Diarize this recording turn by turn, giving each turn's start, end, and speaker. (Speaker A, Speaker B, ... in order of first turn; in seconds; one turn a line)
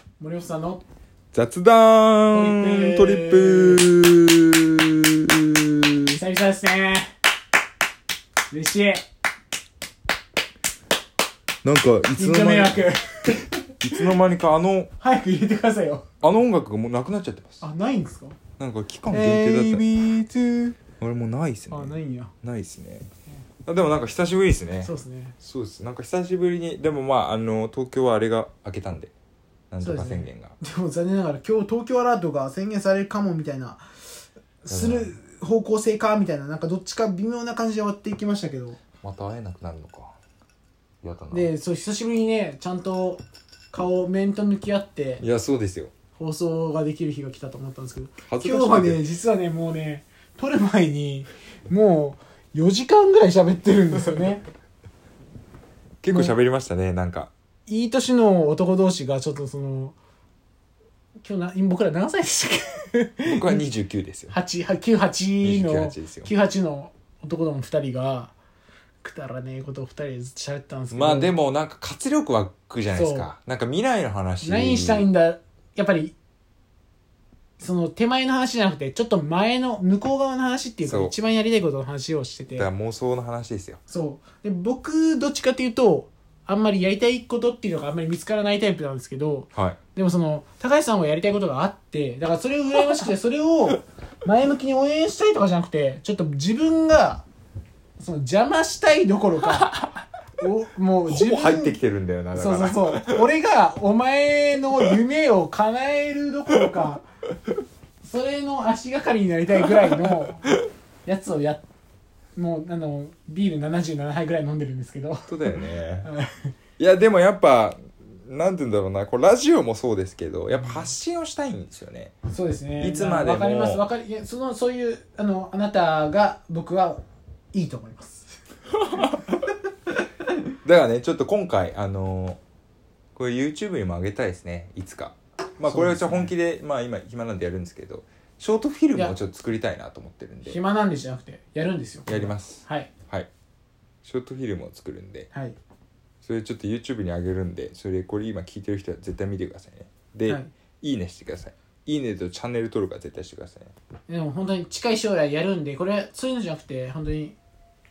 Speaker A: 0.2-0.8
Speaker B: 1.3-6.2
Speaker A: 2.3-3.9
Speaker A: 6.2-7.1
Speaker A: 8.5-9.0
Speaker B: 11.6-14.9
Speaker A: 12.1-13.5
Speaker A: 15.0-16.1
Speaker B: 16.2-17.6
Speaker A: 17.6-18.4
Speaker B: 18.6-19.8
Speaker A: 19.1-20.8
Speaker B: 20.9-23.1
Speaker A: 21.7-22.3
Speaker B: 23.6-29.1
Speaker A: 24.8-25.4
Speaker B: 29.7-30.6
Speaker A: 29.8-33.8
Speaker A: 34.6-38.9
Speaker B: 34.7-35.2
Speaker B: 38.9-40.2
Speaker B: 41.0-41.5
Speaker A: 41.3-45.2
Speaker B: 45.2-45.9
Speaker A: 46.2-54.5
Speaker B: 48.2-49.1
Speaker B: 56.0-57.3
Speaker A: 56.1-56.4
Speaker A: 57.7-60.0
Speaker A: 61.2-63.7
Speaker B: 63.2-64.4
Speaker A: 64.3-68.3
Speaker B: 65.4-66.3
Speaker A: 69.0-71.4
Speaker B: 70.9-75.1
Speaker A: 72.9-73.3
Speaker A: 74.4-76.1
Speaker A: 77.6-82.7
Speaker B: 80.8-81.1
Speaker B: 82.6-83.8
Speaker A: 83.9-97.2
Speaker A: 98.0-99.8
Speaker A: 100.4-101.8
Speaker B: 101.0-103.3
Speaker A: 102.3-107.0
Speaker A: 108.0-110.5
Speaker A: 111.0-111.6
Speaker A: 112.3-116.5
Speaker B: 115.3-116.1
Speaker B: 116.8-122.1
Speaker A: 122.2-127.0
Speaker B: 122.8-123.8
Speaker A: 127.5-128.3
Speaker B: 130.7-132.4
Speaker B: 133.2-140.6
Speaker A: 135.7-136.3
Speaker A: 138.9-139.2
Speaker A: 140.5-143.0
Speaker B: 142.1-143.3
Speaker B: 144.0-145.3
Speaker A: 145.3-145.6
Speaker B: 146.2-153.7
Speaker A: 154.1-157.4